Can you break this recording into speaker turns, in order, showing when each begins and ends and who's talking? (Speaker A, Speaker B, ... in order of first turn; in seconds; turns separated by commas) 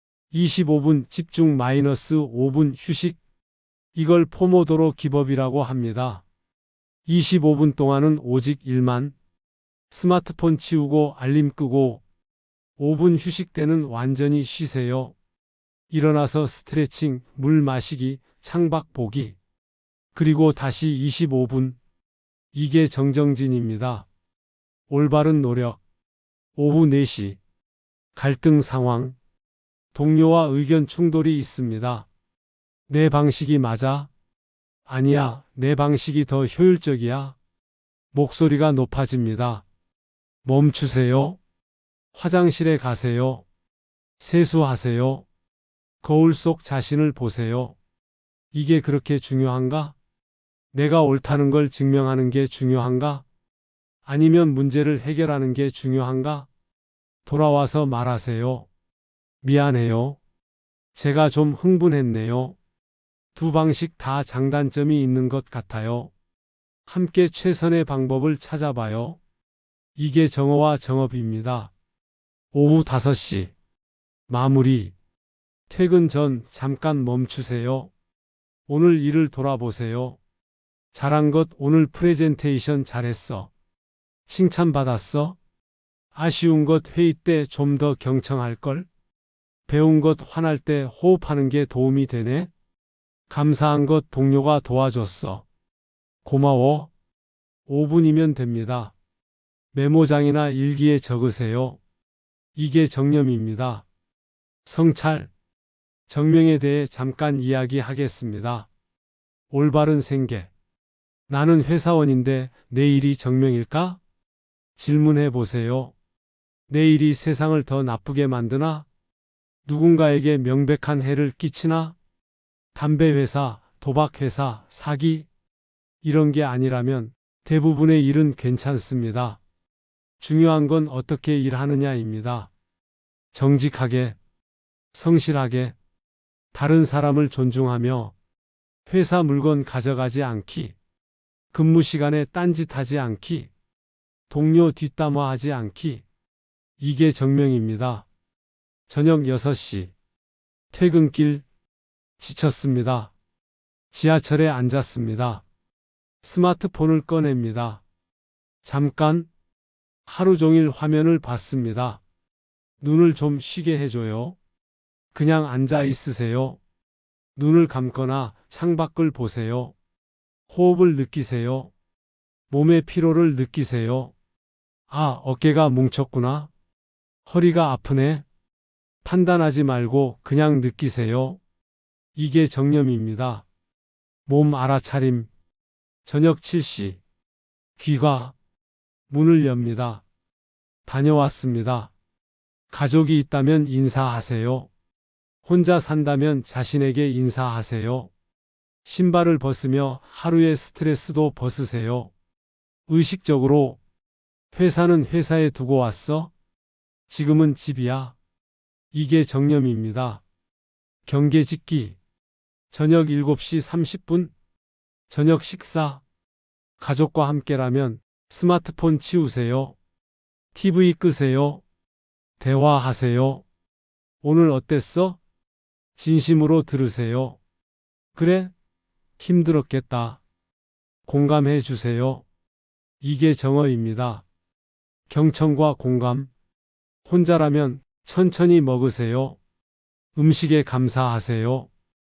Speaker A: 0.3-3.2, Speaker A: 3.9-6.2, Speaker A: 7.0-9.1, Speaker A: 9.9-12.0, Speaker A: 12.8-15.1, Speaker A: 15.9-19.4, Speaker A: 20.1-21.8, Speaker A: 22.5-24.1, Speaker A: 24.9-25.8, Speaker A: 26.6-27.4, Speaker A: 28.1-29.1, Speaker A: 29.9-32.1, Speaker A: 32.9-34.1, Speaker A: 34.9-37.4, Speaker A: 38.1-39.6, Speaker A: 40.4-41.4, Speaker A: 42.1-43.5, Speaker A: 44.2-45.2, Speaker A: 46.0-47.8, Speaker A: 48.5-50.0, Speaker A: 50.7-53.2, Speaker A: 54.0-56.5, Speaker A: 57.2-58.7, Speaker A: 59.4-60.2, Speaker A: 60.9-62.5, Speaker A: 63.3-66.1, Speaker A: 66.9-69.2, Speaker A: 70.0-71.7, Speaker A: 72.5-73.5, Speaker A: 74.3-74.9, Speaker A: 75.7-77.9, Speaker A: 78.7-80.2, Speaker A: 80.9-83.5, Speaker A: 84.3-85.4, Speaker A: 86.1-88.9, Speaker A: 89.7-92.5, Speaker A: 93.3-95.5, Speaker A: 96.2-96.9, Speaker A: 97.7-98.9, Speaker A: 99.7-101.8, Speaker A: 102.5-103.8, Speaker A: 104.6-105.3, Speaker A: 106.1-108.7, Speaker A: 109.5-110.5, Speaker A: 111.3-114.0, Speaker A: 114.8-115.9, Speaker A: 116.7-118.8, Speaker A: 119.7-122.0, Speaker A: 122.7-125.3, Speaker A: 126.0-129.4, Speaker A: 130.2-132.5, Speaker A: 133.3-134.2, Speaker A: 134.9-135.7, Speaker A: 136.5-138.1, Speaker A: 138.9-140.7, Speaker A: 141.5-143.5, Speaker A: 144.3-146.0, Speaker A: 146.8-148.1, Speaker A: 148.9-149.9, Speaker A: 150.7-151.4, Speaker A: 152.2-153.1, Speaker A: 153.9-155.4, Speaker A: 156.2-157.8, Speaker A: 158.6-159.3, Speaker A: 160.1-162.0, Speaker A: 162.8-164.4, Speaker A: 165.1-166.6, Speaker A: 167.3-169.7, Speaker A: 170.5-171.7, Speaker A: 172.5-174.1, Speaker A: 174.9-176.5, Speaker A: 177.2-178.2, Speaker A: 179.0-181.4, Speaker A: 182.2-183.4, Speaker A: 184.3-185.3, Speaker A: 186.1-187.0, Speaker A: 187.8-188.3, Speaker A: 189.1-190.0, Speaker A: 190.8-191.9, Speaker A: 192.7-194.7, Speaker A: 195.4-198.1, Speaker A: 198.8-202.1, Speaker A: 202.9-203.8, Speaker A: 204.5-206.3, Speaker A: 207.1-208.2, Speaker A: 208.9-210.2, Speaker A: 211.1-212.0, Speaker A: 212.7-214.3, Speaker A: 215.1-216.0, Speaker A: 216.8-219.8, Speaker A: 220.5-221.6, Speaker A: 222.4-223.4, Speaker A: 224.2-225.2, Speaker A: 225.9-227.4, Speaker A: 228.1-228.5, Speaker A: 229.2-230.2, Speaker A: 231.1-232.2, Speaker A: 233.0-234.2, Speaker A: 235.1-236.3, Speaker A: 237.1-239.4, Speaker A: 240.2-241.7